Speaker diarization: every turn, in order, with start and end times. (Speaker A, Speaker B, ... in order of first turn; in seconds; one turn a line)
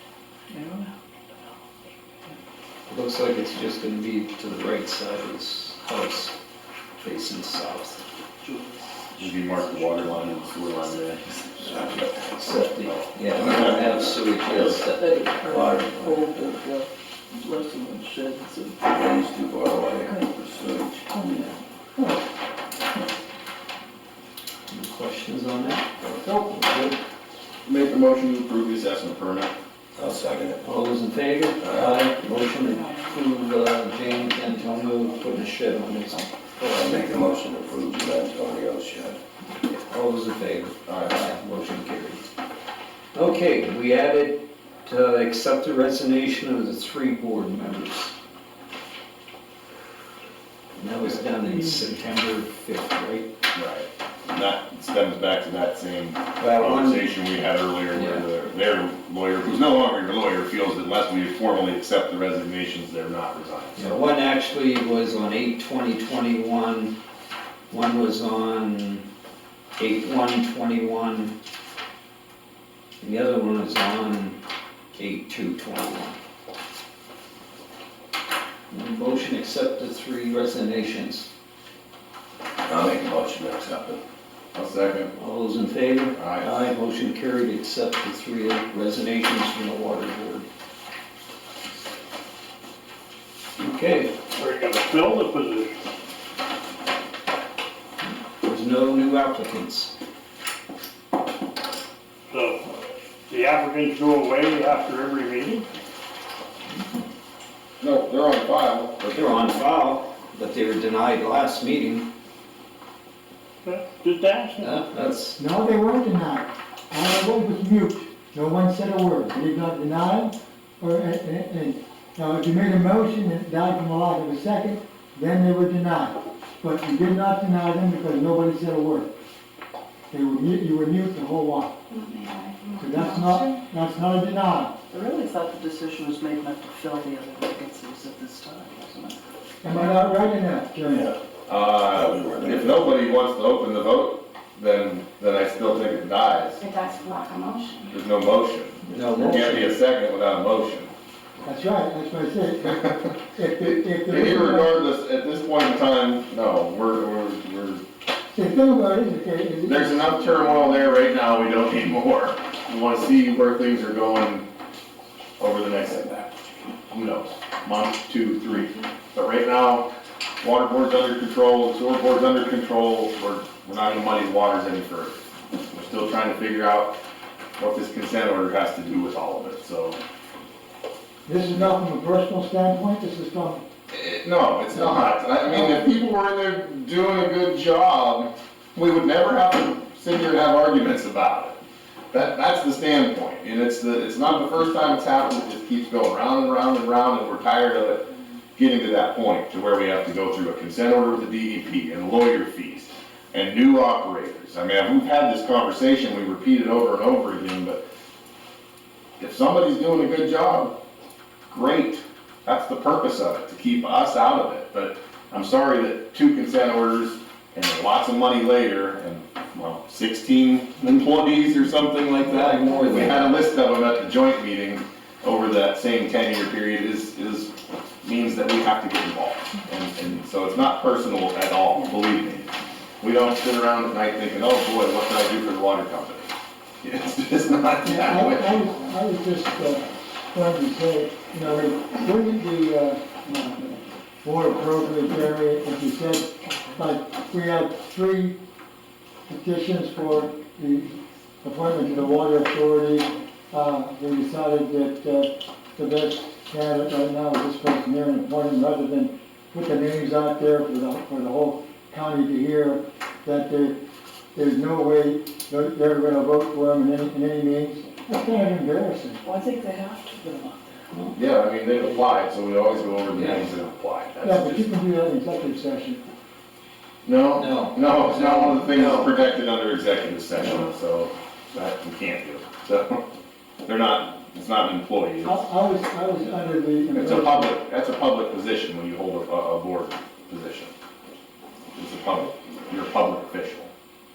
Speaker A: 0.5-0.8
Speaker B: 0.5-0.8
Speaker C: 2.9-6.3
Speaker C: 7.0-8.0
Speaker B: 8.4-8.7
Speaker D: 9.2-11.2
Speaker A: 9.6-10.6
Speaker B: 9.8-10.1
Speaker E: 11.7-12.1
Speaker C: 11.8-15.1
Speaker D: 12.9-13.1
Speaker E: 13.3-14.7
Speaker B: 15.0-15.3
Speaker A: 15.1-15.9
Speaker E: 15.4-16.5
Speaker B: 16.0-16.8
Speaker B: 17.5-18.6
Speaker E: 18.8-21.1
Speaker A: 21.1-21.4
Speaker C: 21.3-21.6
Speaker C: 24.7-27.0
Speaker D: 27.6-29.5
Speaker E: 29.9-30.6
Speaker C: 30.6-37.2
Speaker E: 31.6-32.0
Speaker B: 32.9-33.1
Speaker E: 36.7-39.2
Speaker C: 39.6-42.2
Speaker D: 40.9-41.2
Speaker C: 43.1-48.1
Speaker C: 50.8-53.3
Speaker D: 53.5-64.0
Speaker C: 56.4-57.1
Speaker C: 57.9-58.2
Speaker C: 63.8-67.0
Speaker C: 67.7-69.1
Speaker C: 69.8-71.3
Speaker C: 73.0-74.4
Speaker C: 75.0-76.2
Speaker C: 78.7-81.3
Speaker E: 82.7-84.0
Speaker D: 84.5-85.1
Speaker C: 85.2-90.5
Speaker D: 86.2-86.5
Speaker C: 93.6-94.2
Speaker A: 94.4-95.7
Speaker C: 98.4-99.9
Speaker A: 102.3-102.6
Speaker A: 103.3-105.7
Speaker D: 107.8-109.0
Speaker C: 109.0-112.1
Speaker A: 113.7-114.8
Speaker C: 114.6-115.4
Speaker F: 115.4-129.1
Speaker F: 130.1-131.8
Speaker G: 131.9-133.6
Speaker F: 132.8-134.8
Speaker B: 134.9-139.1
Speaker A: 135.7-136.1
Speaker A: 136.6-137.5
Speaker A: 138.6-139.1
Speaker F: 139.6-141.1
Speaker E: 140.9-141.2
Speaker D: 141.5-146.6
Speaker E: 141.8-142.9
Speaker G: 146.6-148.0
Speaker D: 147.9-150.9
Speaker C: 148.9-149.8
Speaker F: 151.4-154.8
Speaker D: 153.6-157.8
Speaker F: 158.3-160.8
Speaker D: 159.7-164.5
Speaker D: 165.4-169.9
Speaker D: 170.4-175.2
Speaker D: 175.7-177.0
Speaker D: 177.6-180.0
Speaker F: 181.2-183.6
Speaker D: 183.9-191.6
Speaker F: 184.7-185.8
Speaker D: 192.1-198.1
Speaker D: 198.6-207.8
Speaker D: 209.2-210.8
Speaker D: 211.5-236.3
Speaker C: 222.2-223.4
Speaker D: 236.8-238.7
Speaker F: 237.8-248.4
Speaker F: 249.3-263.8
Speaker F: 264.3-269.2
Speaker B: 269.4-270.6
Speaker D: 271.1-274.7
Speaker C: 273.1-273.4
Speaker F: 274.2-276.0
Speaker D: 277.0-283.0
Speaker C: 277.3-279.1
Speaker D: 283.6-285.4
Speaker F: 285.2-287.6
Speaker D: 286.9-290.7
Speaker D: 291.8-293.7